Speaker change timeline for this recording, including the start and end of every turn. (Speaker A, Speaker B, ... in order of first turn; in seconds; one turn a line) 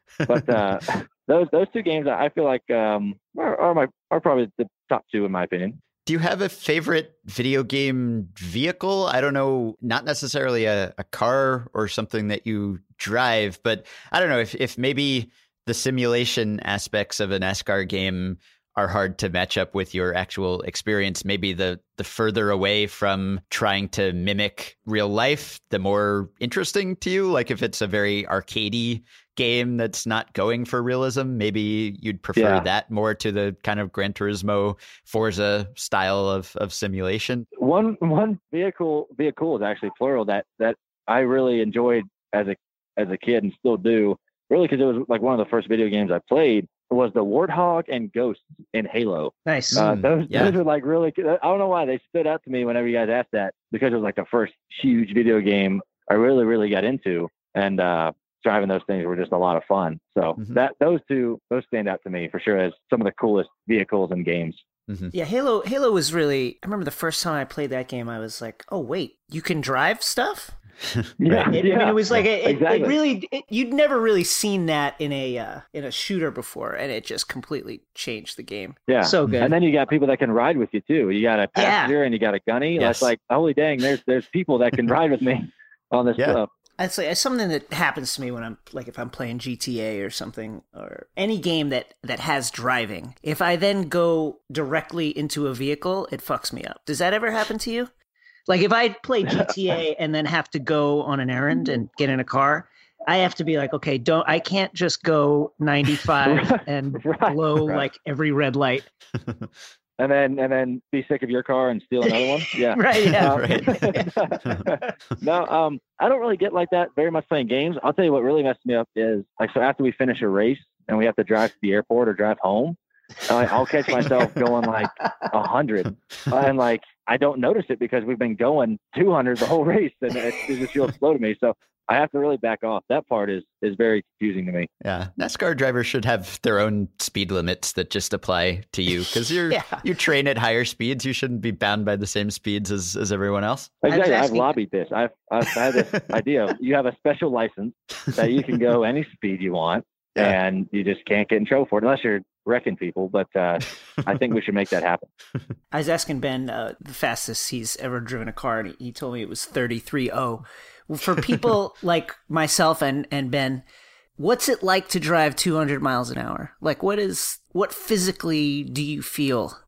Speaker A: 0.3-5.8
Speaker B: 6.1-37.5
Speaker A: 32.4-32.6
Speaker A: 37.6-64.6
Speaker C: 49.5-49.8
Speaker B: 49.7-50.6
Speaker B: 64.9-65.1
Speaker C: 65.1-70.6
Speaker B: 71.0-71.5
Speaker A: 71.2-73.0
Speaker C: 71.5-79.5
Speaker A: 78.9-86.5
Speaker C: 81.6-82.0
Speaker B: 82.8-83.1
Speaker C: 86.8-97.9
Speaker C: 98.5-108.9
Speaker A: 106.2-107.8
Speaker B: 109.2-109.5
Speaker A: 110.0-134.7
Speaker C: 112.0-114.1
Speaker B: 113.2-114.7
Speaker B: 134.8-143.7
Speaker C: 139.5-139.8
Speaker A: 143.8-155.1
Speaker C: 143.9-144.5
Speaker C: 155.7-163.6
Speaker C: 164.2-169.6